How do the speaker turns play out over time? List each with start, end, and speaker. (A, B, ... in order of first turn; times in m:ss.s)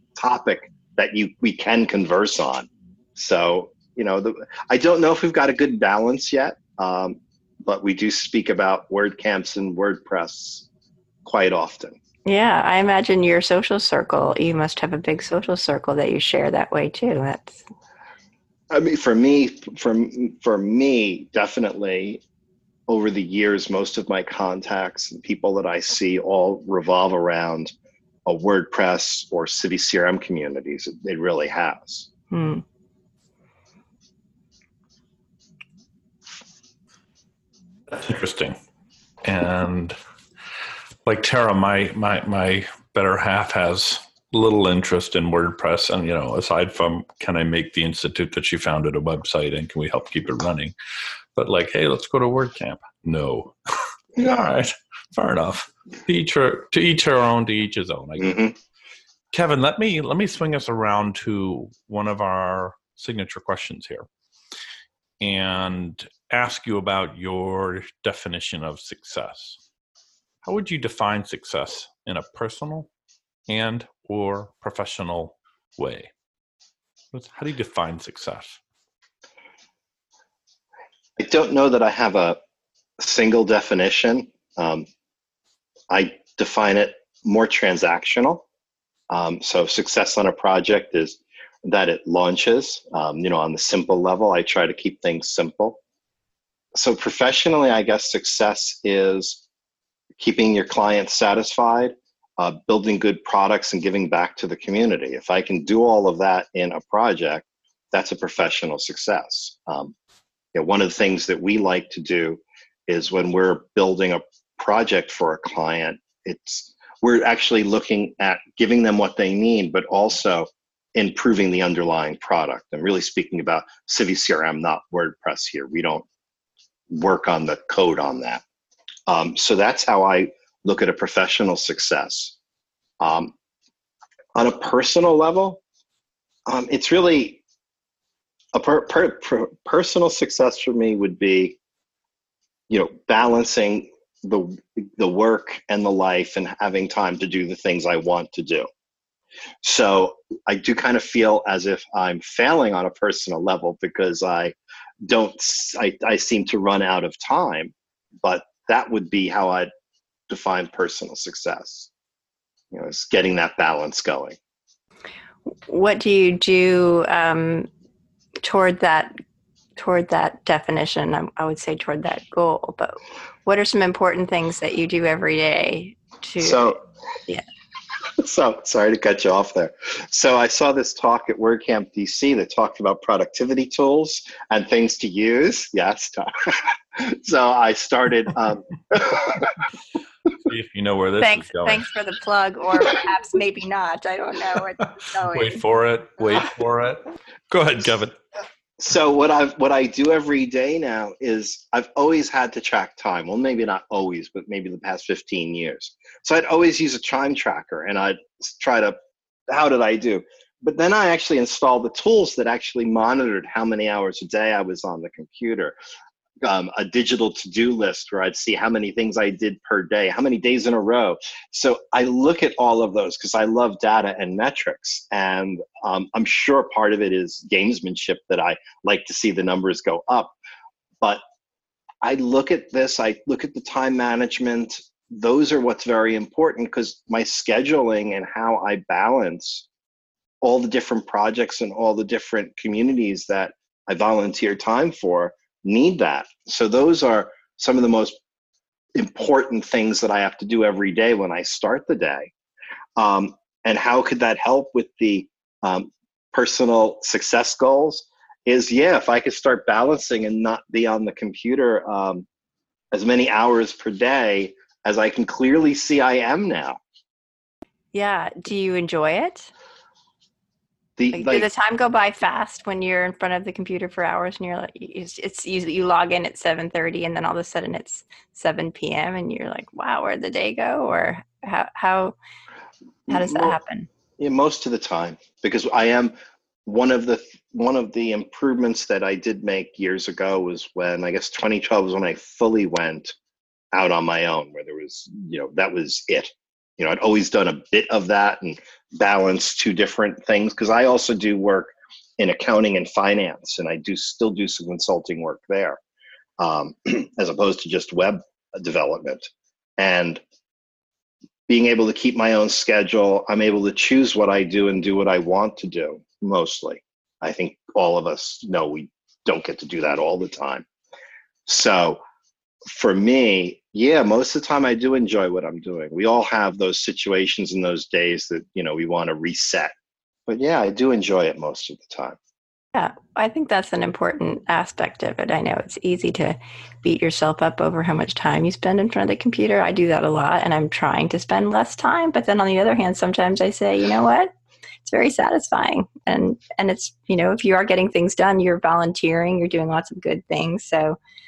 0:00.2-0:10.7 A
0:11.2-0:12.0 A
0:12.3-0:17.6 B
0:18.7-0:22.2 A
0:22.9-0:27.7 A
0:28.3-0:32.1 A
0:32.3-0:32.6 B
0:37.9-0:38.6 C
0:39.2-0:40.0 C
0:41.0-0:50.7 C
0:51.4-0:53.5 C
0:54.2-0:58.4 C
0:58.2-0:58.6 A
0:59.3-1:04.1 C
1:05.2-1:09.6 C
1:10.4-1:12.9 C
1:13.5-1:16.1 C
1:17.1-1:18.6 C
1:21.2-1:22.4 A
1:23.0-1:24.9 A
1:25.9-1:28.4 A
1:29.1-1:35.8 A
1:36.8-1:39.4 A
1:40.2-1:49.9 A
1:50.5-2:06.0 A
2:06.9-2:08.4 A
2:09.1-2:12.4 A
2:13.0-2:13.3 A
2:14.4-2:15.6 A
2:16.5-2:17.4 A
2:18.5-2:21.6 A
2:22.7-2:28.7 A
2:29.6-2:39.7 A
2:40.3-2:41.9 A
2:42.7-2:44.4 A
2:45.5-2:47.7 B
2:48.4-2:49.2 B
2:49.8-2:56.8 B
2:56.4-2:56.8 A
2:58.2-3:09.5 A
3:10.4-3:11.8 C
3:11.2-3:15.6 B
3:15.3-3:18.2 C
3:18.8-3:29.0 A
3:29.5-3:35.8 A
3:36.4-3:50.4 A
3:52.0-3:59.7 A
4:00.4-4:08.2 A
4:09.0-4:12.3 A
4:13.0-4:22.3 A
4:22.9-4:26.8 A
4:27.9-4:29.5 B
4:31.0-4:31.5 A
4:31.1-4:42.2 B
4:43.1-4:43.6 A
4:43.1-4:43.9 B
4:44.2-4:46.1 A
4:46.6-4:53.1 A
4:53.7-5:05.8 A
5:06.4-5:10.2 A
5:11.5-5:20.7 A
5:21.5-5:22.0 A
5:22.7-5:29.7 A
5:30.3-5:32.2 A
5:32.7-5:44.3 B
5:44.8-5:51.0 B